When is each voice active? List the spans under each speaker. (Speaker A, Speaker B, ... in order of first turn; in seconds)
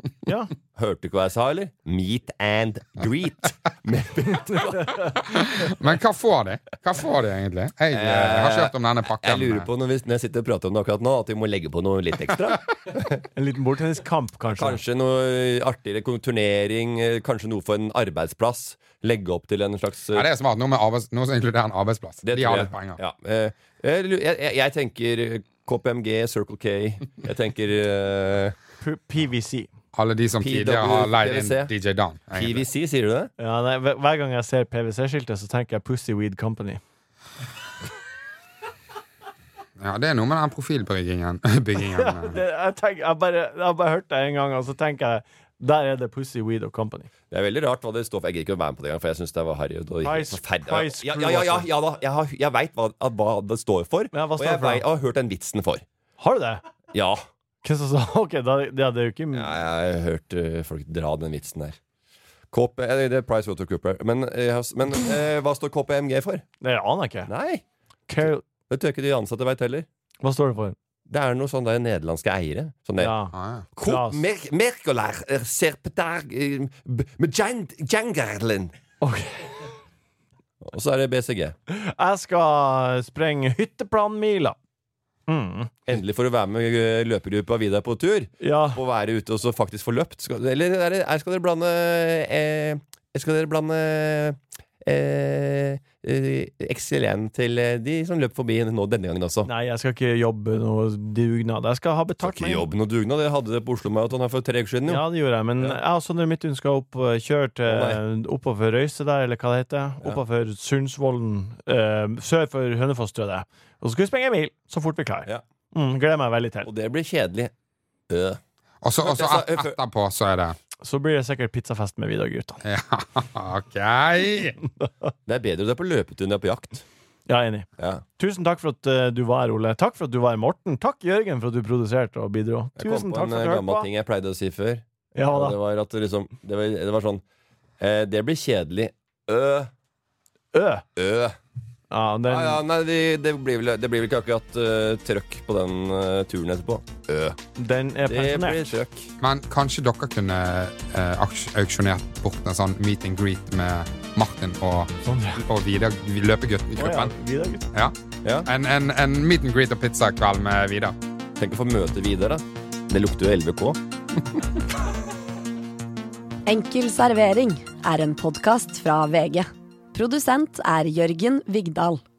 Speaker A: 0.2-0.5, 13.3-14.8, 28.8-29.7, 33.4-36.8, 41.9-47.1, 50.0-51.7, 54.1-54.8, 56.2-56.6, 57.6-59.5, 66.6-67.3, 68.1-68.4, 70.2-70.8, 73.0-74.2, 79.0-79.7, 81.7-84.5, 85.3-85.7, 88.4-88.8, 99.5-102.6, 104.9-116.7, 120.8-122.6, 124.8-125.0, 127.3-127.7, 128.2-133.9, 135.1-135.6, 140.5-140.8, 141.9-142.6, 147.6-148.7, 155.0-155.4, 156.8-157.7
Speaker B: 0.7-5.2, 7.9-13.2, 14.5-20.3, 22.2-28.5, 30.4-31.7, 32.3-33.3, 47.3-55.8, 56.9-57.2, 59.3-61.8, 62.5-66.4, 67.3-67.6, 68.2-69.8, 71.1-73.2, 73.8-78.7, 80.6-81.5, 85.9-99.5, 102.2-105.0, 107.6-108.0, 116.6-117.5, 118.1-118.4, 119.0-119.8, 125.2-126.8, 127.8-128.0, 132.8-137.2, 137.8-139.7, 140.9-141.3, 142.3-147.4, 148.1-149.1, 161.4-163.8
Speaker C: 5.3-9.7, 20.1-23.0, 29.9-32.6, 39.8-42.4, 73.3-73.6, 118.8-120.6, 122.6-124.6, 149.2-157.1, 157.7-160.9
Speaker D: 166.5-172.0